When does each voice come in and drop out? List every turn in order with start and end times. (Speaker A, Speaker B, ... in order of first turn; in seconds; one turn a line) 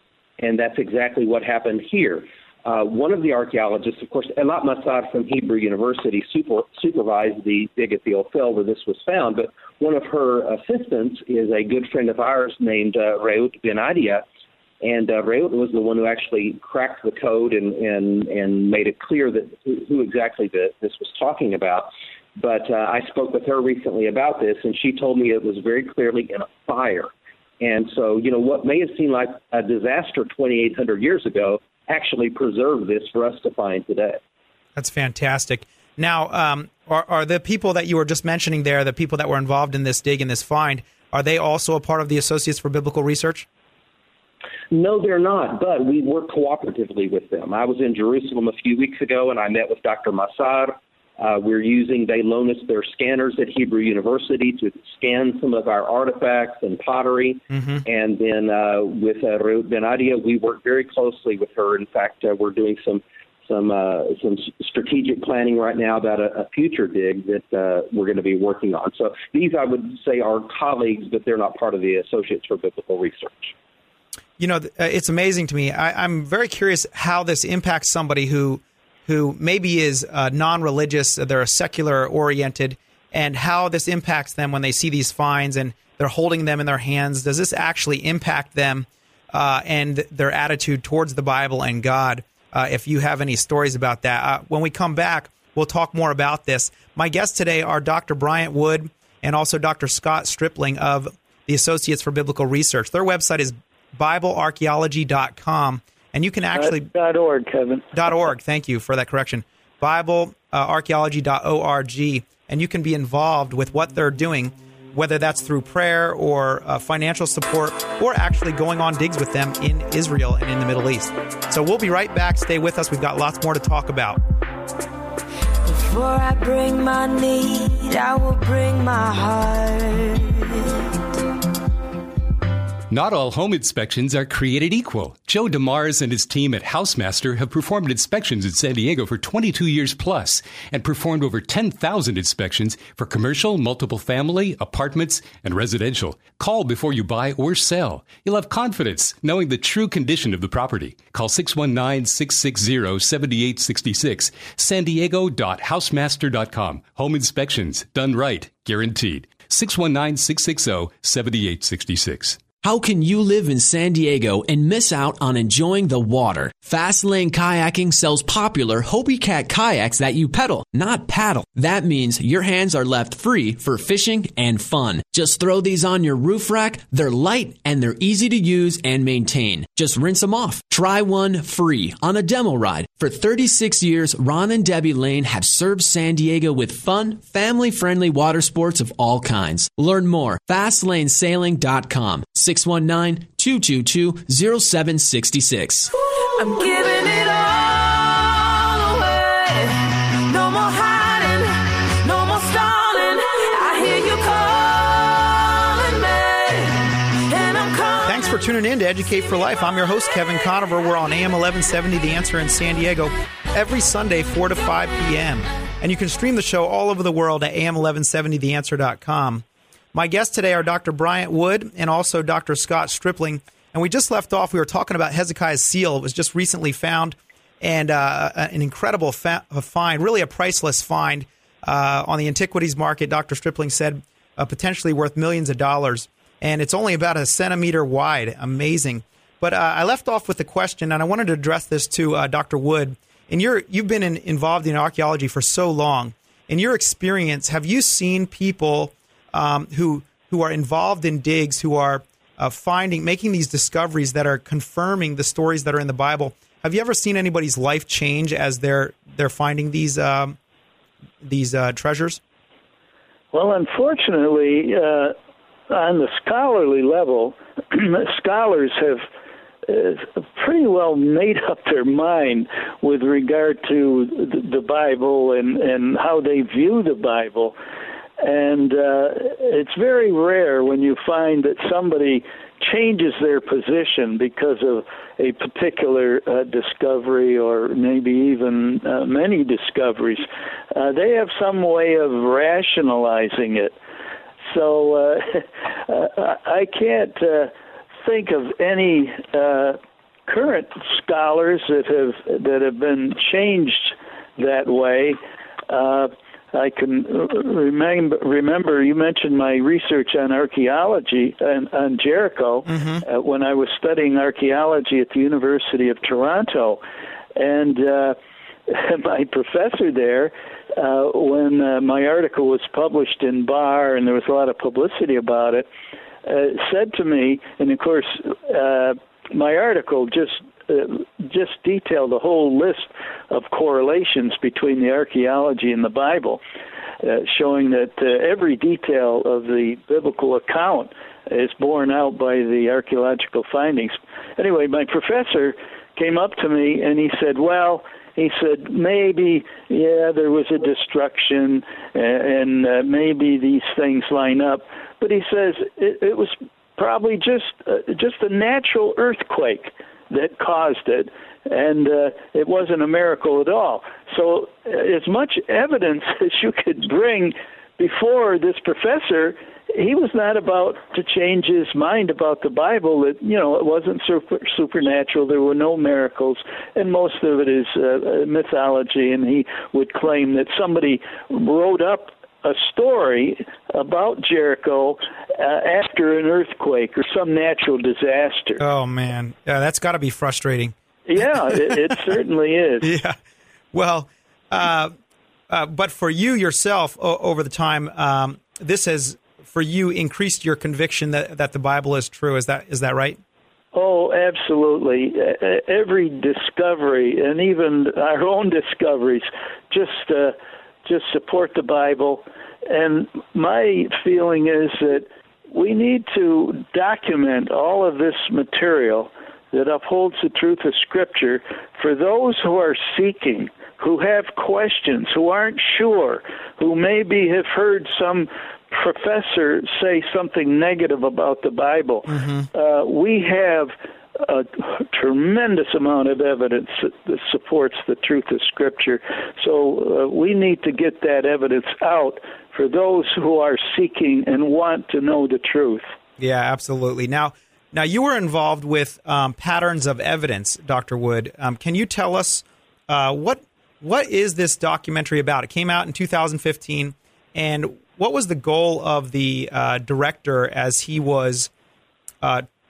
Speaker A: 0.4-14.2
Speaker A: 14.8-34.2
Speaker B: 34.8-43.5
Speaker A: 44.7-73.5
Speaker B: 57.5-57.8
Speaker B: 74.4-106.9
Speaker C: 106.5-108.0
Speaker B: 107.9-124.2
Speaker D: 125.7-130.8
Speaker E: 132.9-162.5
Speaker F: 162.6-195.9
Speaker D: 196.2-208.4
Speaker B: 208.1-260.4
Speaker B: 261.2-262.2
Speaker C: 263.3-265.1
Speaker C: 265.7-269.1
Speaker C: 269.7-277.5
Speaker C: 278.2-293.8
Speaker C: 294.5-297.5
Speaker C: 298.0-316.8
Speaker B: 312.7-313.0
Speaker C: 317.4-318.2
Speaker C: 318.7-325.7
Speaker C: 326.3-336.4
Speaker C: 337.0-388.6
Speaker B: 388.6-390.7
Speaker C: 391.1-392.9
Speaker B: 392.8-393.1
Speaker B: 393.7-394.9
Speaker B: 395.5-403.2
Speaker C: 403.7-445.9
Speaker B: 432.1-432.5
Speaker B: 446.2-461.5